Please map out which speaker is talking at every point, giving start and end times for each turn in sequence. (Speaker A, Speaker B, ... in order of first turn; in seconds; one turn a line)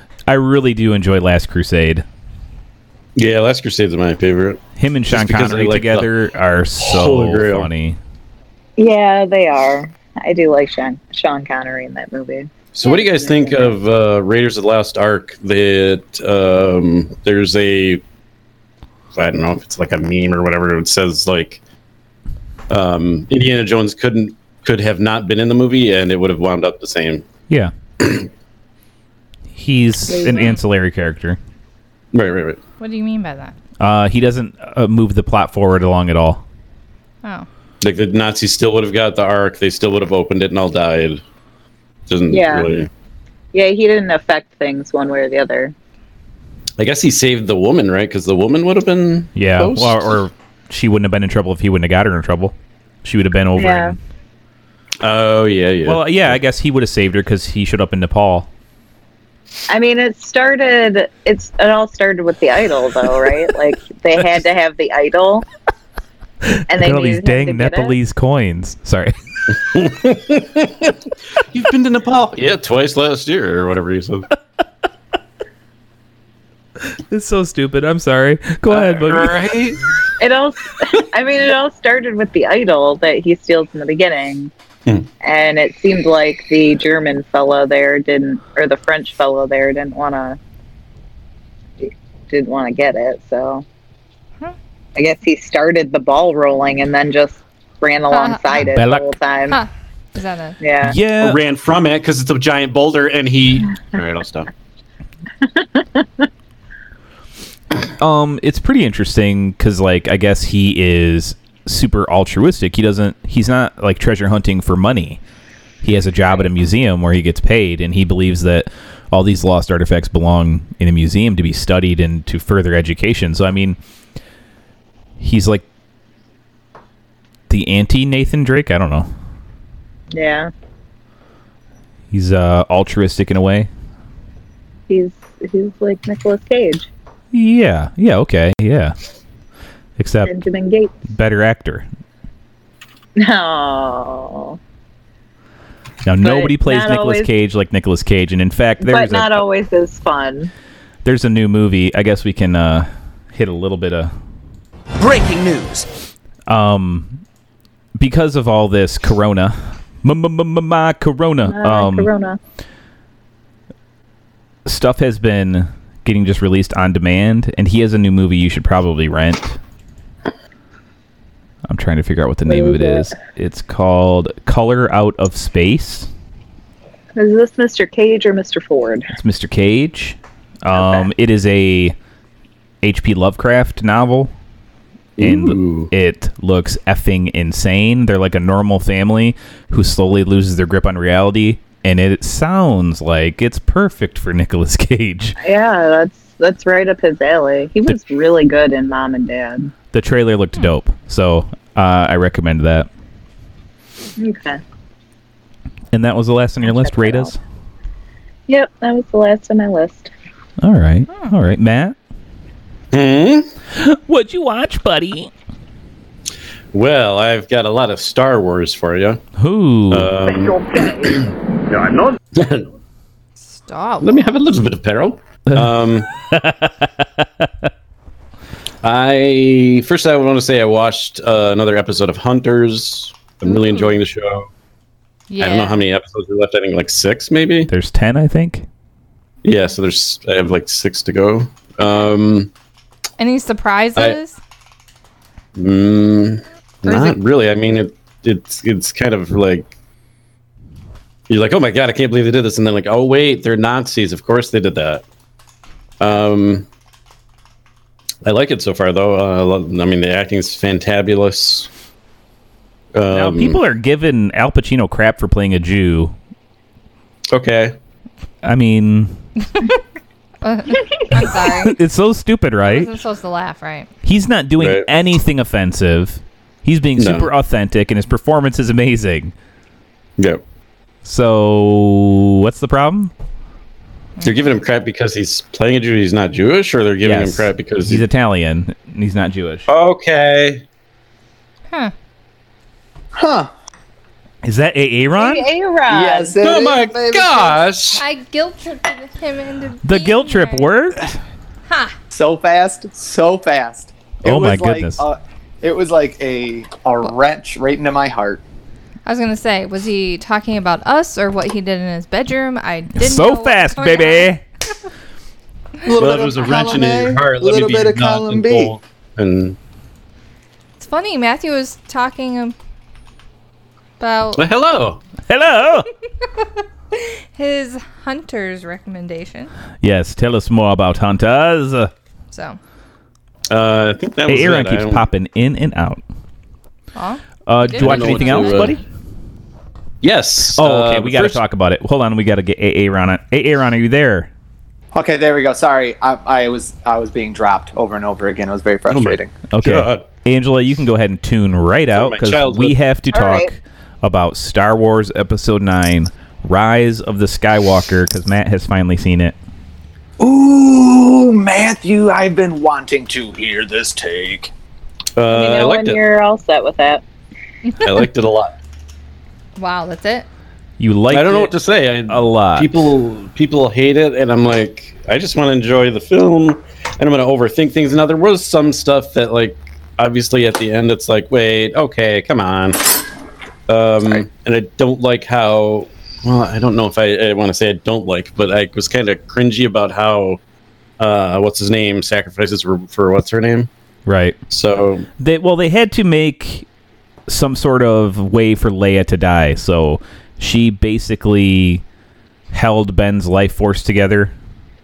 Speaker A: 0.3-2.0
Speaker B: 3.1-6.1
Speaker A: 4.8-8.0
Speaker B: 6.8-7.7
Speaker C: 8.8-13.8
Speaker B: 12.7-18.0
Speaker B: 19.1-21.6
Speaker B: 22.7-27.2
Speaker B: 28.0-28.3
Speaker A: 29.5-31.4
Speaker C: 30.1-30.5
Speaker D: 30.3-30.6
Speaker B: 32.1-32.6
Speaker D: 32.8-33.5
Speaker A: 33.8-36.4
Speaker B: 37.8-41.2
Speaker B: 42.1-42.9
Speaker C: 42.3-42.7
Speaker C: 43.5-45.7
Speaker B: 46.8-50.1
Speaker A: 49.3-54.0
Speaker C: 53.6-54.0
Speaker B: 55.0-56.4
Speaker A: 55.9-58.5
Speaker C: 59.7-65.5
Speaker A: 66.4-69.2
Speaker C: 66.7-68.0
Speaker B: 69.7-74.3
Speaker A: 77.1-79.3
Speaker B: 78.7-79.8
Speaker C: 80.2-84.5
Speaker C: 85.2-90.4
Speaker C: 91.8-93.6
Speaker C: 95.0-99.6
Speaker D: 98.1-98.6
Speaker A: 98.6-99.1
Speaker D: 99.5-100.6
Speaker C: 100.6-101.0
Speaker A: 100.8-101.4
Speaker B: 101.2-104.5
Speaker C: 105.4-106.3
Speaker A: 108.0-115.2
Speaker A: 115.8-123.8
Speaker A: 125.2-125.6
Speaker A: 127.5-129.1
Speaker C: 130.1-130.5
Speaker A: 132.1-133.7
Speaker C: 134.9-136.9
Speaker A: 137.3-138.9
Speaker A: 140.0-140.3
Speaker C: 140.2-140.9
Speaker A: 141.1-141.9
Speaker C: 143.2-144.6
Speaker A: 146.0-149.4
Speaker C: 146.2-147.3
Speaker C: 148.8-150.5
Speaker A: 151.0-154.1
Speaker E: 155.3-155.8
Speaker A: 156.5-157.2
Speaker A: 158.0-162.1
Speaker C: 161.5-162.4
Speaker A: 164.7-169.6
Speaker A: 171.7-176.1
Speaker C: 172.4-173.1
Speaker C: 177.2-179.1
Speaker A: 179.1-181.9
Speaker C: 180.8-181.0
Speaker A: 182.8-184.3
Speaker B: 185.2-185.9
Speaker A: 185.2-195.4
Speaker C: 195.4-199.7
Speaker A: 199.9-202.9
Speaker C: 204.2-204.6
Speaker A: 205.9-207.4
Speaker C: 206.6-207.3
Speaker C: 208.5-210.1
Speaker A: 210.6-211.9
Speaker B: 212.9-213.5
Speaker A: 213.7-215.3
Speaker B: 216.7-219.2
Speaker A: 219.4-220.1
Speaker B: 219.9-221.3
Speaker B: 222.3-222.7
Speaker D: 223.4-224.4
Speaker B: 224.0-226.1
Speaker A: 225.5-227.7
Speaker B: 228.8-234.5
Speaker D: 233.5-234.0
Speaker D: 235.3-235.8
Speaker B: 235.4-237.7
Speaker A: 237.7-238.7
Speaker B: 239.4-242.5
Speaker D: 243.2-244.4
Speaker B: 245.5-249.7
Speaker D: 246.8-247.2
Speaker B: 251.3-255.0
Speaker B: 256.0-256.7
Speaker B: 258.2-261.7
Speaker B: 262.9-263.6
Speaker A: 263.1-266.1
Speaker B: 267.3-267.8
Speaker A: 268.4-269.2
Speaker D: 270.4-271.8
Speaker A: 271.4-272.9
Speaker D: 272.6-273.9
Speaker A: 274.0-279.3
Speaker B: 274.6-274.9
Speaker B: 277.0-277.3
Speaker B: 280.2-280.4
Speaker A: 281.0-283.1
Speaker B: 284.2-288.0
Speaker A: 287.0-289.7
Speaker B: 289.7-290.6
Speaker E: 293.1-293.5
Speaker A: 294.4-295.5
Speaker C: 295.1-296.4
Speaker E: 295.9-297.6
Speaker B: 296.4-298.0
Speaker D: 298.0-300.7
Speaker A: 299.8-301.1
Speaker D: 301.7-301.9
Speaker E: 302.1-308.4
Speaker A: 304.2-305.0
Speaker D: 309.1-314.3
Speaker A: 312.9-314.4
Speaker E: 315.8-318.8
Speaker B: 316.0-319.6
Speaker D: 320.8-322.5
Speaker D: 324.0-324.4
Speaker B: 324.4-325.0
Speaker A: 325.3-325.9
Speaker D: 326.2-329.5
Speaker A: 329.8-331.9
Speaker D: 332.3-332.6
Speaker B: 333.5-335.1
Speaker A: 334.3-336.0
Speaker D: 336.9-338.8
Speaker A: 337.4-338.8
Speaker B: 337.8-338.8
Speaker B: 340.0-341.4
Speaker A: 340.5-344.3
Speaker E: 344.9-349.3
Speaker B: 348.9-350.1
Speaker A: 349.5-359.4
Speaker B: 351.9-352.8
Speaker C: 353.1-353.5
Speaker E: 360.2-364.5
Speaker B: 365.1-366.0
Speaker C: 365.3-367.0
Speaker B: 367.8-368.6
Speaker D: 369.6-370.3
Speaker A: 370.8-371.5
Speaker B: 371.1-382.8
Speaker A: 372.1-372.7
Speaker B: 383.7-390.4
Speaker B: 391.0-393.7
Speaker A: 394.1-394.4
Speaker B: 394.5-395.1
Speaker A: 395.2-396.6
Speaker A: 397.3-401.8
Speaker A: 402.5-404.3